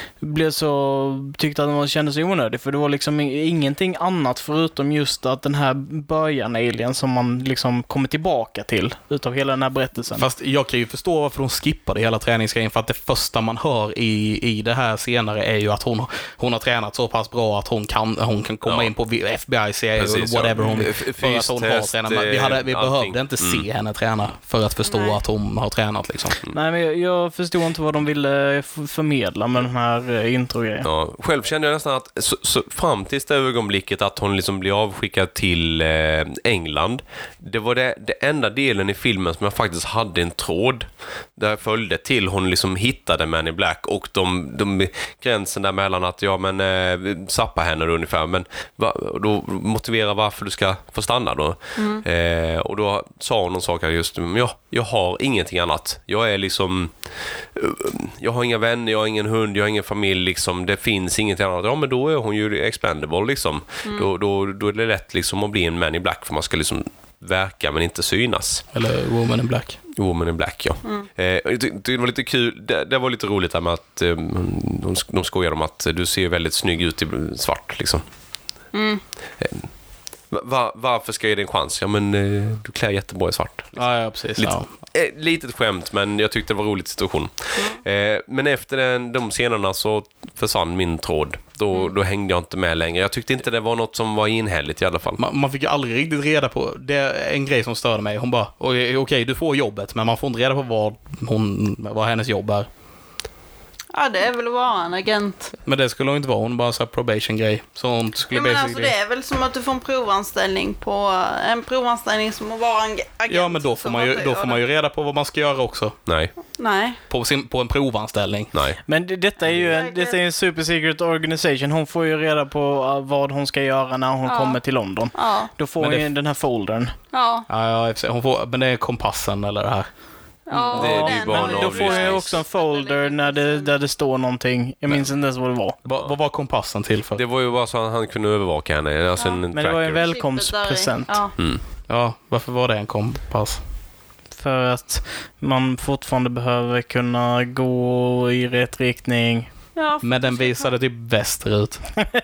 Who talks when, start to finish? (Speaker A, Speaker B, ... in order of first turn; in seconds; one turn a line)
Speaker A: 0.2-10.2
Speaker B: 10.1-26.4
Speaker C: 18.6-18.9
Speaker C: 20.0-23.7
Speaker D: 24.9-25.2
Speaker A: 26.5-30.9
Speaker C: 30.8-57.0
Speaker D: 51.8-52.0
Speaker C: 57.5-68.7
Speaker B: 68.7-69.8
Speaker C: 69.9-78.0
Speaker D: 78.7-79.0
Speaker C: 79.4-79.7
Speaker C: 80.3-83.8
Speaker B: 83.8-84.7
Speaker C: 84.4-95.2
Speaker B: 95.2-102.7
Speaker D: 103.9-105.5
Speaker B: 105.7-108.9
Speaker D: 108.3-114.6
Speaker B: 113.3-116.0
Speaker C: 116.1-116.3
Speaker D: 116.6-117.0
Speaker B: 117.1-118.5
Speaker C: 118.5-118.8
Speaker A: 118.9-127.0
Speaker D: 119.5-120.2
Speaker D: 124.3-124.6
Speaker D: 125.2-125.5
Speaker B: 125.8-126.1
Speaker D: 127.1-127.5
Speaker B: 127.5-129.9
Speaker D: 130.5-133.7
Speaker A: 130.5-135.8
Speaker C: 130.7-132.4
Speaker B: 135.8-137.2
Speaker C: 137.2-140.1
Speaker A: 139.5-141.2
Speaker D: 140.1-141.3
Speaker B: 141.9-143.6
Speaker A: 144.3-149.5
Speaker D: 149.8-150.7
Speaker B: 150.0-151.8